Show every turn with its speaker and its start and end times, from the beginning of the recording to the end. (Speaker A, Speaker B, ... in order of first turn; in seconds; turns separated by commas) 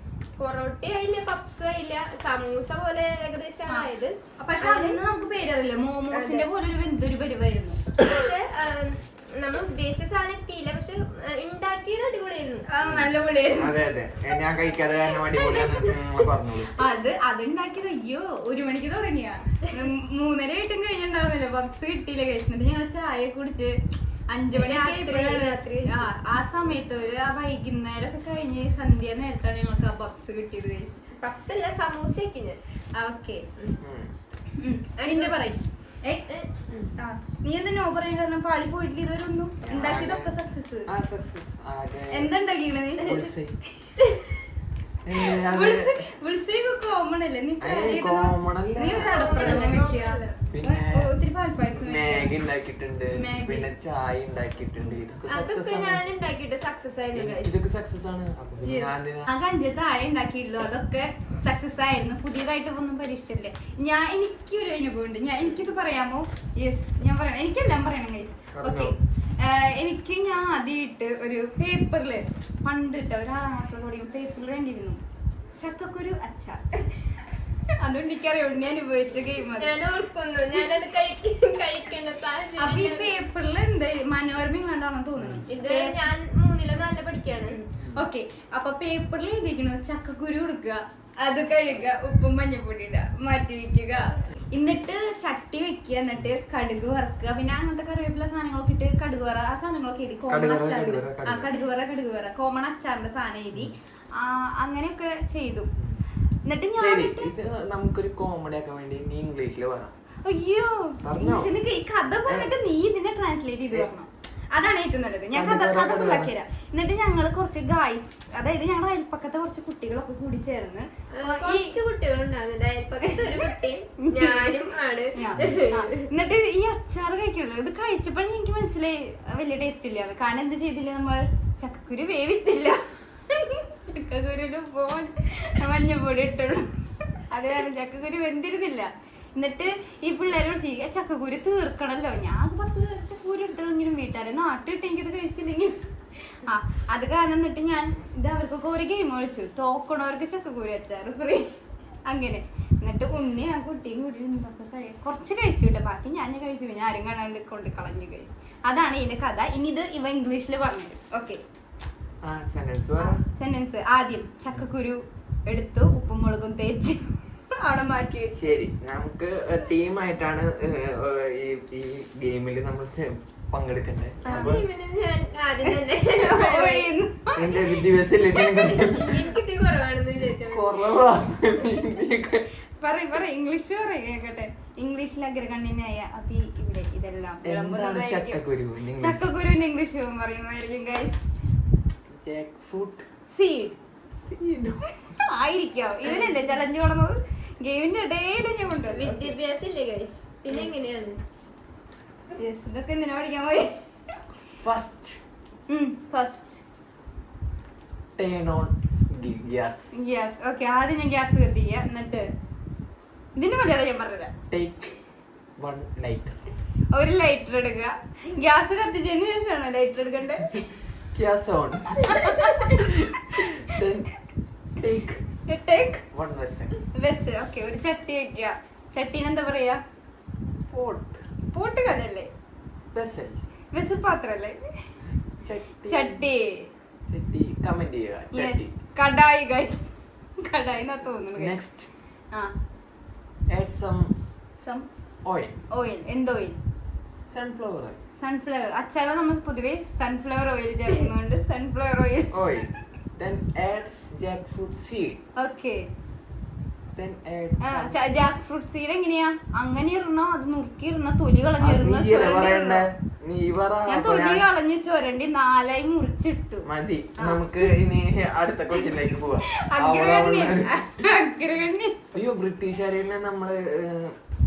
Speaker A: 0.4-5.3, Speaker B: 3.7-7.8, Speaker A: 6.1-6.5, Speaker A: 7.9-12.7, Speaker B: 12.7-13.8, Speaker C: 12.8-16.7, Speaker A: 15.2-16.1, Speaker B: 16.8-23.8, Speaker B: 24.3-31.1, Speaker A: 24.5-26.1, Speaker A: 31.2-32.6, Speaker B: 33.0-33.5, Speaker C: 33.8-34.2, Speaker B: 34.5-36.2, Speaker A: 35.0-35.4, Speaker A: 36.3-36.9, Speaker B: 37.0-40.9, Speaker C: 39.6-42.3, Speaker B: 42.1-43.2, Speaker C: 43.0-43.6, Speaker C: 45.0-46.0, Speaker B: 45.3-52.3, Speaker C: 47.6-49.8, Speaker A: 49.0-50.4, Speaker C: 50.5-51.1, Speaker C: 51.7-56.0, Speaker B: 53.1-53.7, Speaker A: 55.3-57.5, Speaker C: 57.1-59.3, Speaker B: 58.6-75.0, Speaker C: 68.5-69.0, Speaker B: 75.6-77.3, Speaker B: 77.8-79.8, Speaker A: 79.5-83.2, Speaker B: 82.6-86.1, Speaker C: 85.2-85.5, Speaker A: 85.5-87.6, Speaker B: 87.5-105.7, Speaker C: 87.8-88.1, Speaker C: 100.3-101.5, Speaker B: 106.5-107.3, Speaker C: 106.8-109.9, Speaker B: 110.2-121.8, Speaker C: 111.0-111.5, Speaker C: 112.3-112.5, Speaker C: 115.3-116.3, Speaker A: 121.1-126.1, Speaker B: 123.0-124.6, Speaker B: 125.1-161.4, Speaker C: 162.2-163.2, Speaker B: 163.3-168.4, Speaker C: 168.3-174.7, Speaker B: 174.2-174.6, Speaker A: 174.3-176.9, Speaker B: 175.7-177.8, Speaker C: 177.3-179.3, Speaker A: 178.5-181.0, Speaker C: 180.5-182.5, Speaker B: 182.8-188.4, Speaker C: 187.4-189.3, Speaker B: 189.0-191.2, Speaker C: 192.1-193.1, Speaker B: 193.3-193.8, Speaker C: 194.1-195.1, Speaker B: 195.1-199.4, Speaker A: 198.9-201.2, Speaker B: 200.5-200.8, Speaker B: 202.4-203.8, Speaker C: 204.6-205.2, Speaker B: 205.7-206.6, Speaker C: 208.2-209.9, Speaker B: 209.9-212.3, Speaker B: 213.4-214.3, Speaker C: 214.5-214.9, Speaker C: 215.6-216.4, Speaker B: 216.9-220.7, Speaker C: 220.5-224.1, Speaker B: 222.0-222.8, Speaker C: 224.8-225.2, Speaker B: 225.5-226.1, Speaker C: 226.1-226.7, Speaker B: 226.9-229.8, Speaker C: 230.7-231.2, Speaker B: 231.5-232.3, Speaker C: 232.9-233.4, Speaker B: 233.7-234.6, Speaker C: 235.4-236.3, Speaker B: 235.9-236.7, Speaker C: 237.1-238.7, Speaker B: 238.3-241.6, Speaker C: 241.4-241.9, Speaker C: 243.5-244.1, Speaker B: 244.6-244.9, Speaker C: 245.2-245.5, Speaker B: 245.7-246.6, Speaker C: 247.3-248.0, Speaker B: 248.2-252.3, Speaker C: 252.3-255.2, Speaker B: 255.4-255.9, Speaker C: 256.9-258.0, Speaker B: 257.6-262.8, Speaker C: 261.6-264.5, Speaker B: 263.9-267.6, Speaker C: 266.6-271.0, Speaker B: 269.5-272.1, Speaker C: 272.1-274.2